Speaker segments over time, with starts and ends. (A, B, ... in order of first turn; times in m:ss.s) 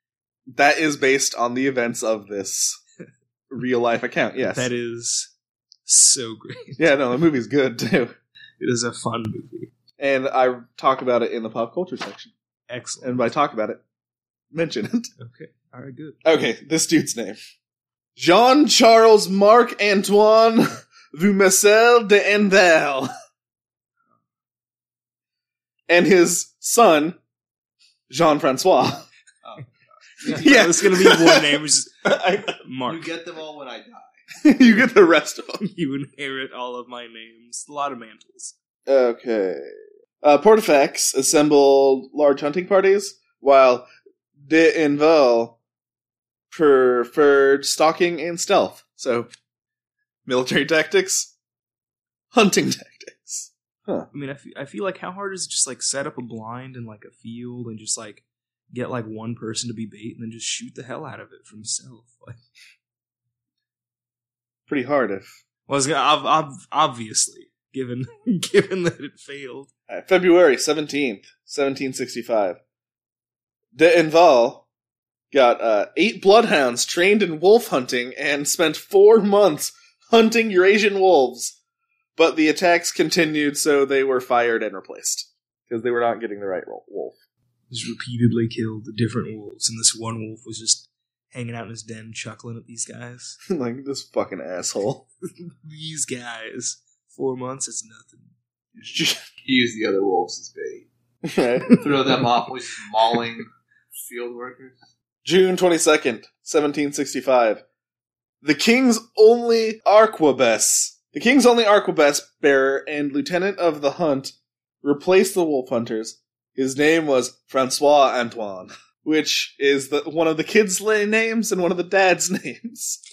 0:00.5-0:02.8 A
0:03.5-0:04.7 A
0:04.5-0:05.3 B
0:05.9-0:06.9 B
0:06.8-0:08.2 A
0:08.6-0:09.7 B
0:10.0-0:12.3 A
0:12.7-0:13.3 B
0:13.0-0:13.8 A
0:14.5-0:15.1 A
0:15.2-0:16.2 B
0:16.2-0:17.4 A
0:18.2-0:23.1 A
0:25.9-0:27.2 A
0:28.1-0:29.1 A
0:30.2-0:30.6 C
0:30.2-0:33.2 B
0:30.4-0:32.6 A
0:32.9-0:34.4 C
0:34.4-0:35.6 A
0:35.6-0:38.5 B
0:38.9-0:43.9 A
0:44.4-0:45.6 A
0:46.5-0:49.3 A
0:50.3-0:51.3 A
0:52.3-0:54.1 A
0:54.1-1:02.4 B
1:04.7-1:05.4 A
1:05.7-1:09.7 B
1:09.9-1:12.6 A
1:13.7-1:14.7 A
1:15.3-1:21.6 A
1:22.2-1:27.2 A
1:27.7-1:33.4 B
1:33.5-1:35.0 A
1:35.4-1:38.3 B
1:38.9-1:39.2 A
1:39.4-1:40.9 C
1:41.2-1:41.8 A
1:41.7-1:44.8 C
1:45.2-1:47.6 A
1:48.4-2:03.0 A